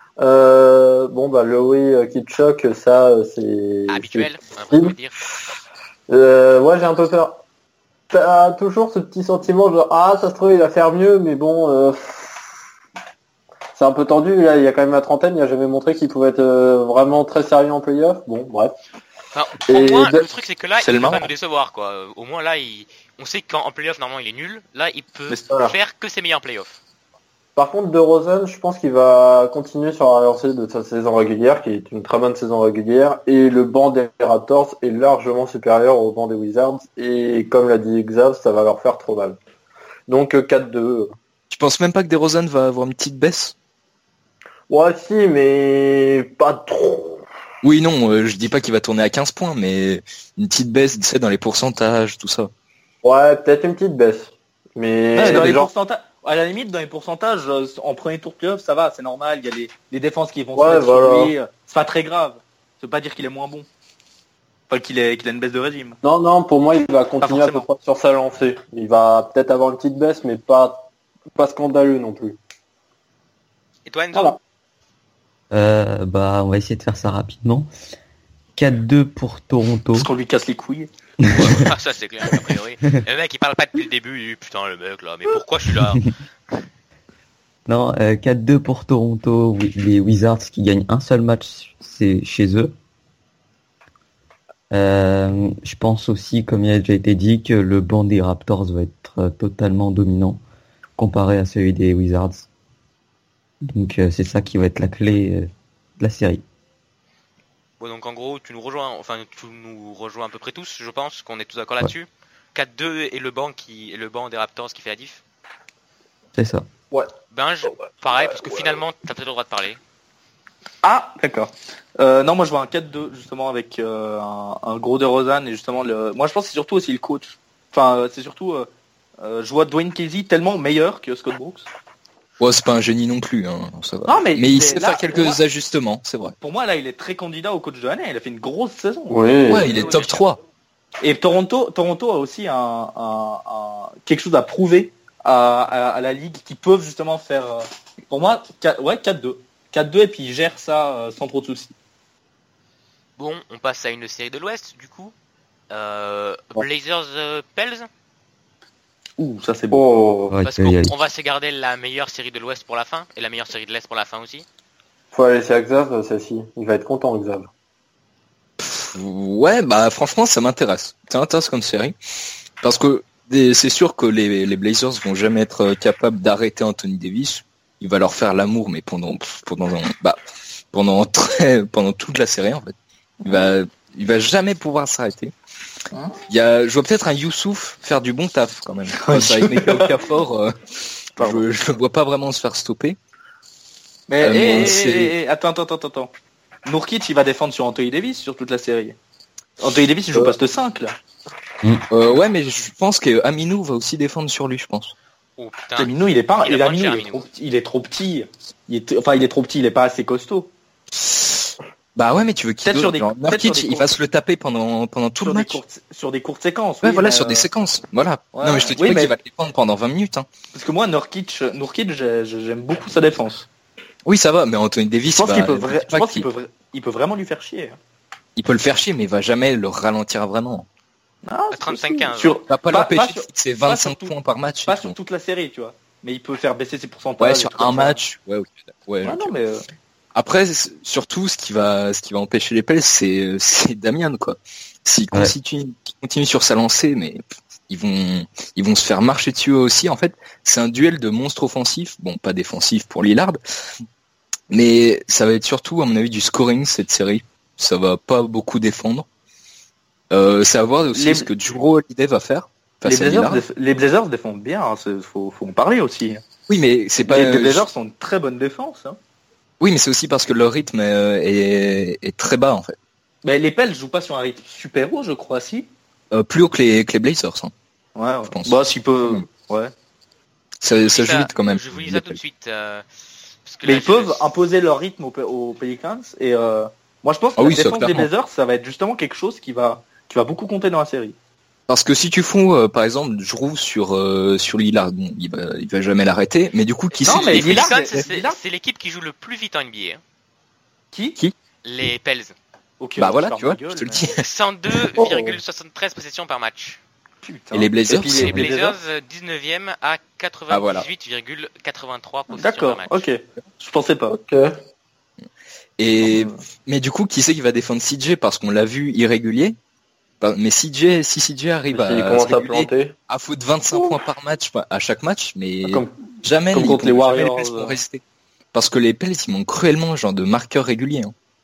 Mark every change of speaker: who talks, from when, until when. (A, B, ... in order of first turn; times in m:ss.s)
0:00.2-0:05.0 A
0:03.9-0:05.2 B
0:06.1-0:07.4 A
0:08.1-0:12.4 A
0:13.7-0:18.7 A
0:19.3-0:26.8 B
0:19.7-0:20.2 A
0:20.8-0:21.3 C
0:25.5-0:25.7 A
0:27.6-0:39.4 A
0:40.1-0:41.1 A
0:41.5-0:43.5 D
0:44.7-0:47.2 A
0:47.6-0:52.5 D
0:53.0-0:55.7 A
0:55.2-0:55.6 D
0:55.2-1:03.7 C
1:00.5-1:01.3 A
1:04.7-1:06.0 C
1:06.0-1:10.8 A
1:07.2-1:07.6 C
1:11.3-1:12.4 A
1:13.8-1:14.4 B
1:14.1-1:14.4 A
1:15.5-1:17.7 E
1:18.6-1:20.1 E
1:19.9-1:21.6 C
1:21.2-1:21.7 E
1:21.3-1:26.6 B
1:27.7-1:32.7 E
1:34.7-1:40.4 E
1:41.0-1:42.5 E
1:43.6-1:46.4 E
1:47.8-1:55.2 B
1:56.4-1:56.7 E
1:57.3-1:59.8 B
1:57.6-1:58.8 A
2:00.8-2:08.7 C
2:09.2-2:11.7 C
2:12.4-2:16.3 D
2:14.0-2:15.4 C
2:16.4-2:19.8 C
2:19.1-2:19.7 A
2:19.4-2:20.4 D
2:19.6-2:20.2 B
2:21.0-2:31.7 C
2:33.2-2:35.1 B
2:35.7-2:37.9 B
2:39.2-2:39.8 C
2:39.7-2:40.3 A
2:40.3-2:40.9 E
2:40.4-2:44.4 B
2:45.1-2:47.5 A
2:48.6-2:51.9 D
2:52.6-3:00.2 D
3:00.7-3:05.3 D
3:03.2-3:03.5 C
3:05.9-3:06.2 C
3:06.3-3:10.5 D
3:09.0-3:09.9 C
3:11.1-3:13.0 D
3:11.2-3:11.4 C
3:14.1-3:16.1 C
3:14.2-3:15.1 D
3:16.6-3:19.0 C
3:19.6-3:21.0 C
3:21.9-3:24.9 D
3:25.4-3:27.2 B
3:25.8-3:30.5 C
3:31.0-3:35.6 D
3:32.6-3:33.9 C
3:35.2-3:37.5 C
3:36.8-3:40.3 D
3:38.3-3:39.2 C
3:40.5-3:43.5 C
3:44.0-3:46.3 D
3:45.1-3:47.8 C
3:48.4-3:50.6 D
3:51.2-3:58.0 C
3:51.5-3:52.4 B
3:52.5-3:55.0 D
3:57.2-3:59.3 D
3:59.0-3:59.6 C
4:00.1-4:13.4 D
4:14.5-4:19.1 D
4:20.1-4:23.4 D
4:20.9-4:21.3 C
4:22.8-4:26.2 C
4:26.5-4:27.6 D
4:27.0-4:29.0 C
4:29.6-4:32.8 D
4:33.2-4:35.7 C
4:36.1-4:37.5 D
4:37.9-4:39.7 C
4:38.3-4:39.2 D
4:40.6-4:42.2 D
4:40.6-4:42.8 B
4:43.4-4:44.2 B
4:43.6-4:51.2 C
4:47.4-4:48.1 D
4:51.7-4:57.8 D
4:57.0-5:00.0 B
4:57.0-4:58.4 C
5:00.9-5:01.2 C
5:01.6-5:02.3 B
5:02.8-5:04.1 C
5:03.0-5:04.2 D
5:04.2-5:06.8 B
5:05.0-5:05.4 A
5:07.2-5:08.8 C
5:07.5-5:08.3 D
5:08.0-5:13.0 B
5:10.5-5:10.9 D
5:12.3-5:14.2 C
5:14.1-5:14.6 A
5:15.8-5:19.6 D
5:16.0-5:16.4 C
5:20.2-5:28.0 D
5:21.7-5:22.9 A
5:25.6-5:25.9 A
5:26.5-5:27.8 C
5:28.5-5:31.1 D